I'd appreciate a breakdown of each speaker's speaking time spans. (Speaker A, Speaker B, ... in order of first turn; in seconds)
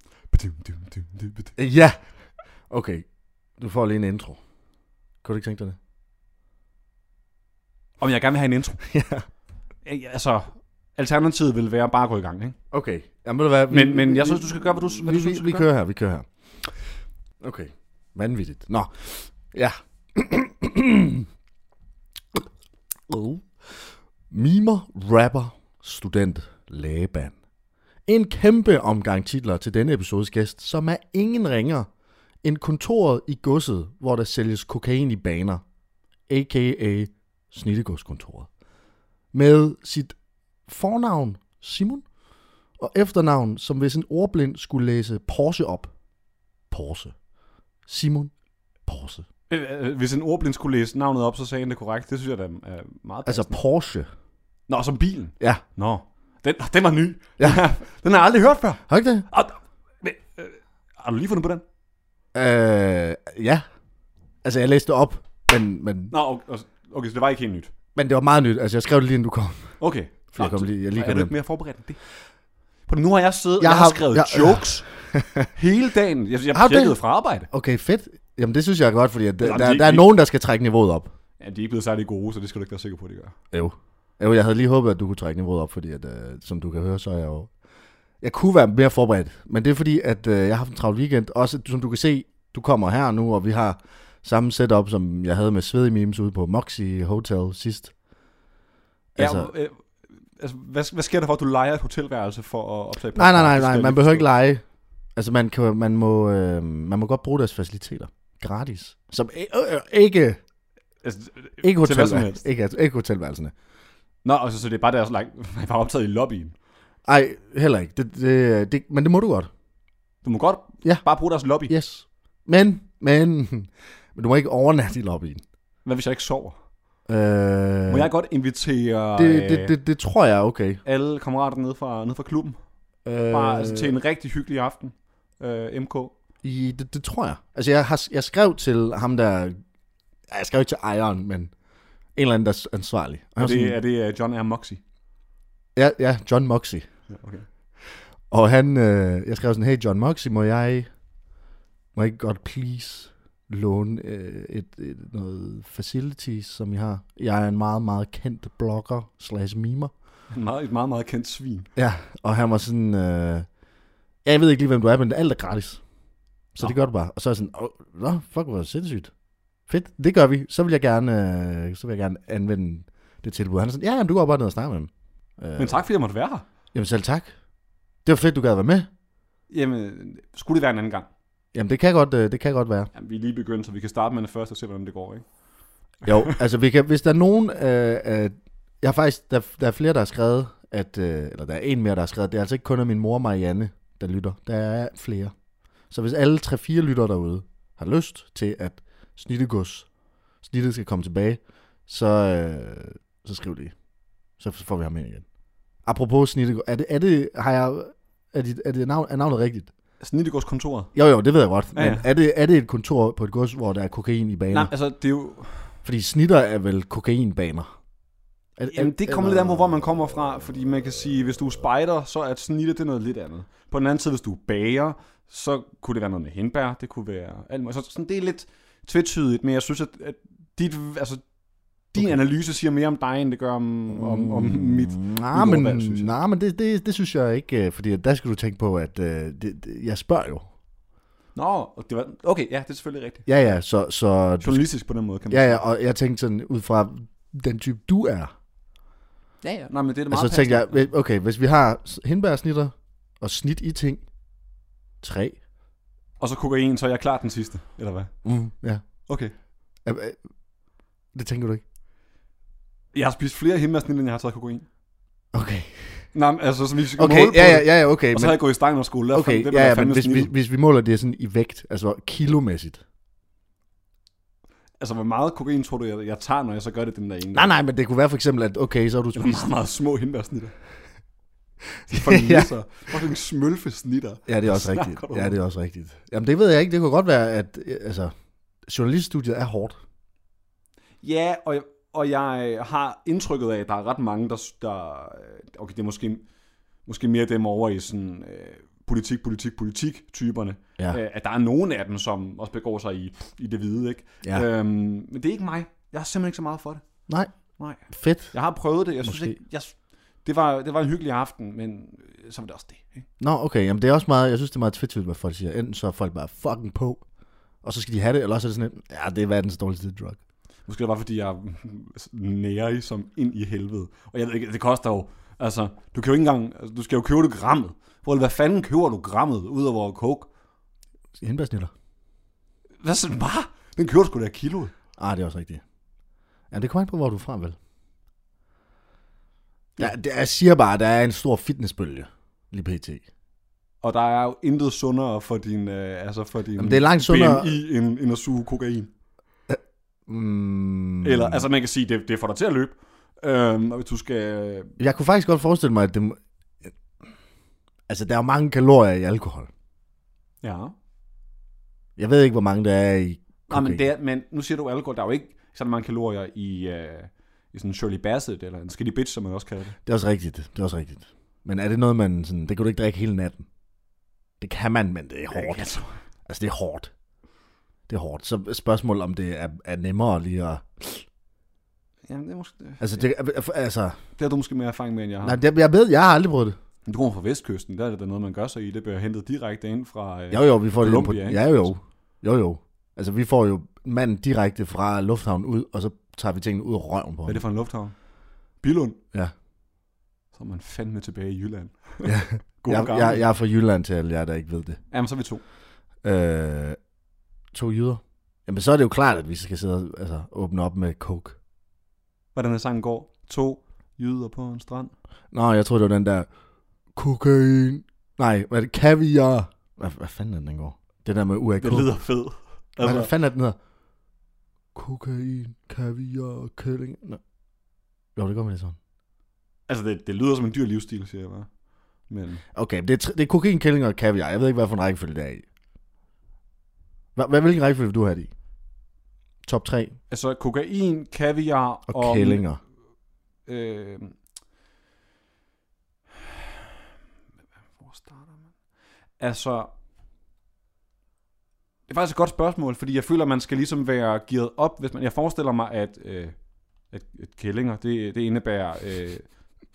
Speaker A: 0.3-1.5, 8.0-8.8, 9.8-12.6, 13.7-15.7, 49.5-53.6, 54.7-61.6, 66.1-67.7, 69.8-72.0, 72.9-74.9, 75.5-77.5, 79.4-80.1, 81.4-83.3, 99.2-99.8, 100.4-104.3, 111.0-112.5, 114.2-116.5, 120.2-121.7, 125.8-126.6, 127.9-129.7, 130.8-132.6, 133.3-136.1, 143.4-144.8, 147.1-147.5, 160.3-161.7, 175.6-176.5, 179.5-181.1, 182.9-185.3, 186.1-186.3, 210.0-210.9, 211.8-212.1, 214.5-215.7, 218.7-231.2, 231.9-236.1, 241.3-243.3, 244.4-245.6, 249.4-250.8, 256.2-258.1, 259.1-259.3, 262.9-264.7, 266.1-270.3, 274.8-277.5, 279.1-280.6, 281.9-285.4, 291.0-296.2, 296.9-306.9, 307.6-313.1, 320.7-330.3, 332.8-334.7, 343.8-348.9, 351.0-354.7, 360.4-360.7, 363.5-369.8, 375.3-376.0, 382.1-383.1, 384.2-385.4, 386.9-391.7, 397.2-397.9, 398.6-399.0, 400.3-403.2, 404.9-405.4, 412.4-414.9, 421.6-423.1, 429.7-431.5, 432.1-432.4, 440.1-442.4, 443.4-444.2, 447.8-448.4, 449.2-449.7, 451.9-456.4, 456.9-459.3
Speaker B: 1.6-2.0, 2.7-3.0, 3.6-4.4, 5.2-5.8, 8.8-9.2, 12.7-16.7, 17.4-21.3, 23.1-27.3, 28.1-31.9, 32.4-35.6, 36.3-38.5, 39.3-40.1, 40.7-42.0, 42.8-45.9, 46.7-47.1, 47.9-48.3, 48.9-49.2, 53.2-54.1, 58.9-59.3, 62.3-63.6, 64.4-66.1, 68.0-69.7, 70.3-71.3, 73.6-75.5, 76.5-77.0, 77.5-81.1, 83.5-87.5, 88.2-97.9, 99.2-99.5, 103.2-104.6, 105.2-110.4, 111.6-113.5, 117.1-119.5, 121.7-125.4, 127.1-128.1, 129.2-130.8, 133.1-133.9, 136.4-139.6, 140.3-141.5, 142.2-143.8, 145.8-146.9, 147.9-150.9, 151.9-159.9, 161.8-163.5, 164.2-165.8, 166.5-169.1, 169.7-175.8, 176.7-177.3, 178.1-178.9, 181.5-182.9, 186.1-195.3, 195.9-199.9, 200.4-203.8, 204.4-205.2, 205.8-209.7, 210.9-214.7, 215.8-217.7, 218.6-219.9, 233.9-240.5, 243.2-244.6, 245.3-248.3, 250.1-254.0, 255.0-255.4, 258.2-258.8, 259.9-260.2, 261.1-261.6, 265.3-266.1, 267.0-268.4, 269.1-272.8, 277.3-279.5, 281.9-282.5, 284.3-288.1, 288.7-289.8, 307.9-308.3, 309.0-309.4, 313.2-317.1, 317.6-320.2, 331.2-331.7, 335.0-335.6, 336.5-337.6, 339.8-343.1, 346.6-347.5, 349.5-351.4, 354.8-356.7, 357.9-359.5, 362.0-363.9, 369.9-373.5, 374.4-375.7, 376.2-376.9, 377.9-381.1, 382.8-384.0, 385.2-386.6, 390.3-397.4, 402.0-404.8, 406.0-406.8, 407.5-411.4, 415.3-416.3, 416.9-421.9, 422.8-423.6, 424.8-427.2, 428.2-428.8, 432.5-435.4, 437.2-438.3, 439.4-439.9, 441.9-442.6